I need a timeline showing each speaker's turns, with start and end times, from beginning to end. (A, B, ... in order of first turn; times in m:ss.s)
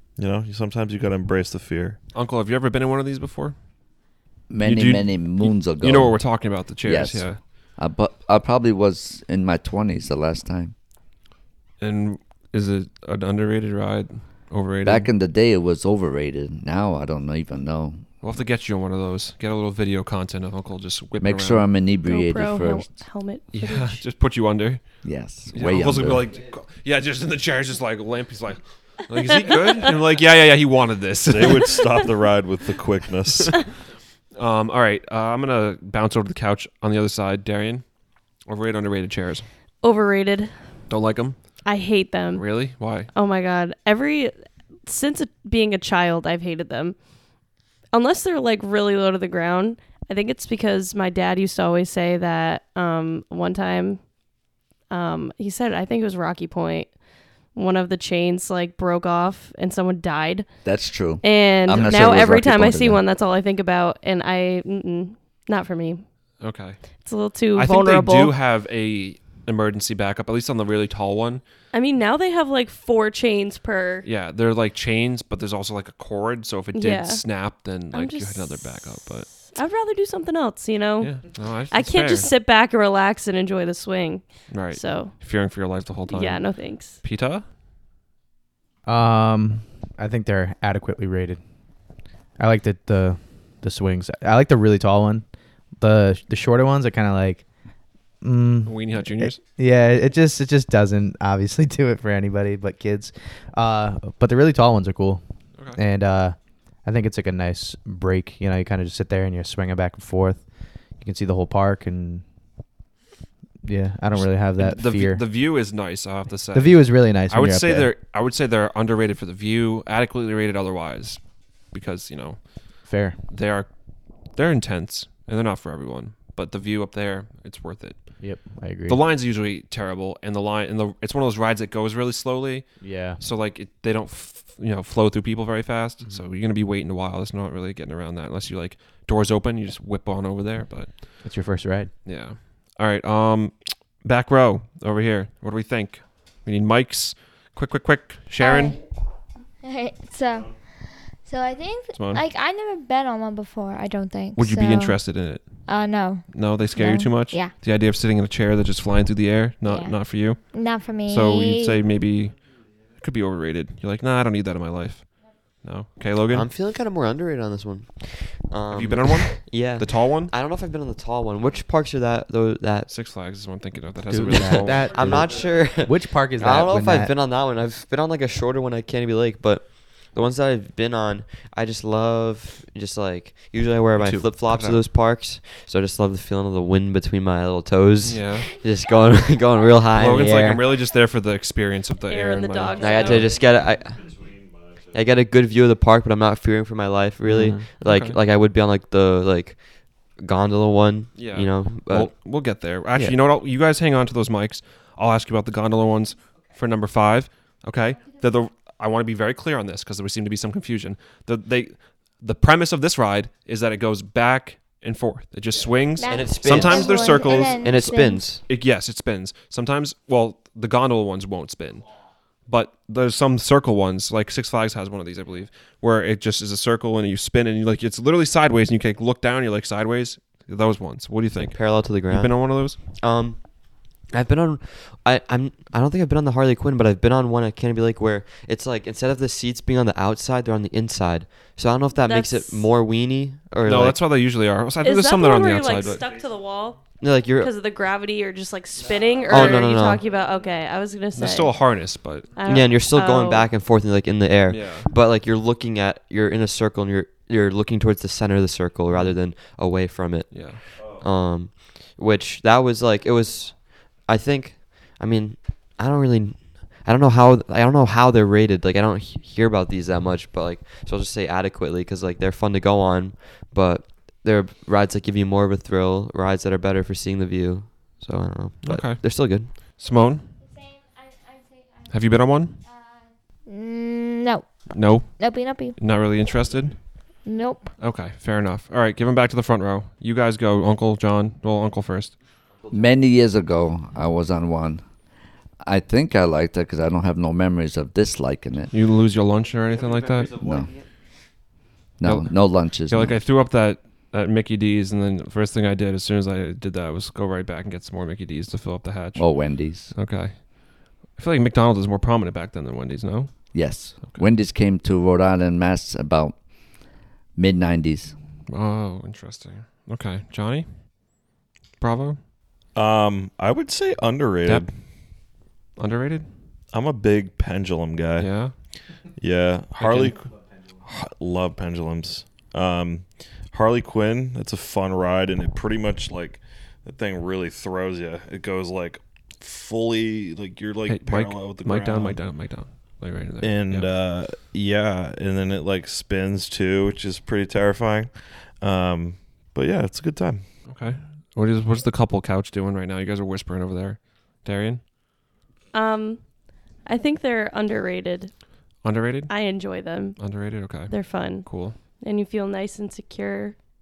0:00.2-0:02.0 A
0:02.1-0:03.6 B
0:04.5-0:06.3 C
0:04.6-0:07.4 B
0:06.8-0:10.8 C
0:11.8-0:15.1 B
0:14.8-0:18.0 C
0:18.2-0:21.7 B
0:21.2-0:22.9 C
0:22.0-0:24.0 D
0:23.5-0:31.9 B
0:25.0-0:26.3 C
0:29.3-0:29.9 D
0:31.3-0:33.6 A
0:34.4-0:37.9 B
0:38.4-0:39.5 B
0:39.8-0:40.5 D
0:40.9-0:41.5 B
0:41.6-0:44.3 D
0:42.3-0:43.1 B
0:44.8-0:47.0 D
0:47.9-0:54.1 D
0:54.9-0:57.0 D
0:57.5-1:06.0 D
1:00.6-1:03.0 C
1:06.4-1:11.4 B
1:07.0-1:08.4 D
1:11.7-1:14.1 D
1:14.0-1:19.5 B
1:16.7-1:25.2 D
1:21.0-1:22.3 B
1:24.5-1:27.4 B
1:26.1-1:27.0 D
1:28.9-1:31.4 E
1:32.4-1:35.3 E
1:35.8-1:37.5 E
1:38.2-1:45.2 E
1:38.7-1:39.4 B
1:45.8-1:52.2 E
1:53.6-1:55.2 E
1:54.1-2:21.2 B
1:56.5-1:57.9 E
2:02.9-2:03.2 E
2:08.2-2:09.0 E
2:12.8-2:13.2 E
2:21.2-2:21.9 E
2:22.0-2:28.8 B
2:28.4-2:28.8 F
2:29.6-2:37.6 F
2:31.9-2:32.2 B
2:34.4-2:35.7 B
2:36.3-2:42.4 B
2:39.6-2:41.8 F
2:43.0-2:46.5 B
2:46.3-2:52.9 G
2:48.7-2:50.3 B
2:52.9-2:55.2 B
2:54.1-2:57.1 E
2:54.3-3:10.6 G
3:04.0-3:04.8 B
3:08.0-3:08.5 B
3:09.9-3:13.4 B
3:10.2-3:10.6 E
3:12.1-3:13.4 D
3:12.8-3:14.2 G
3:14.2-3:14.9 A
3:14.9-3:22.2 G
3:17.3-3:18.2 B
3:17.3-3:17.7 E
3:21.2-3:37.9 B
3:36.0-3:38.3 F
3:36.1-3:38.4 G
3:38.5-3:41.9 B
3:42.5-3:52.8 B
3:51.5-3:53.4 G
3:54.1-4:04.0 G
4:02.0-4:02.7 D
4:03.6-4:06.1 B
4:04.8-4:11.6 D
4:07.0-4:07.5 G
4:09.3-4:10.1 G
4:09.3-4:09.6 B
4:11.2-4:12.7 B
4:12.4-4:13.5 D
4:12.4-4:39.7 G
4:14.5-4:14.9 B
4:20.3-4:20.6 B
4:38.6-4:40.4 B
4:39.8-4:45.8 F
4:41.9-4:42.6 B
4:44.7-4:46.9 B
4:47.2-4:47.7 F
4:47.8-4:52.2 B
4:52.7-4:54.9 C
4:55.6-4:58.7 C
4:58.7-5:00.4 B
5:00.4-5:00.7 C
5:02.0-5:03.2 C
5:02.0-5:14.2 B
5:09.2-5:09.9 C
5:13.5-5:16.4 C
5:17.4-5:18.2 C
5:18.5-5:21.3 B
5:21.8-5:22.2 B
5:22.7-5:24.7 A
5:24.5-5:26.3 B
5:26.7-5:28.5 A
5:28.2-5:28.5 B
5:29.2-5:30.2 A
5:29.8-5:30.2 B
5:30.8-5:42.2 A
5:40.9-5:43.9 B
5:43.4-5:50.4 A
5:50.7-5:54.8 B
5:55.7-5:58.4 D
5:58.8-6:01.8 B
5:59.3-6:03.6 D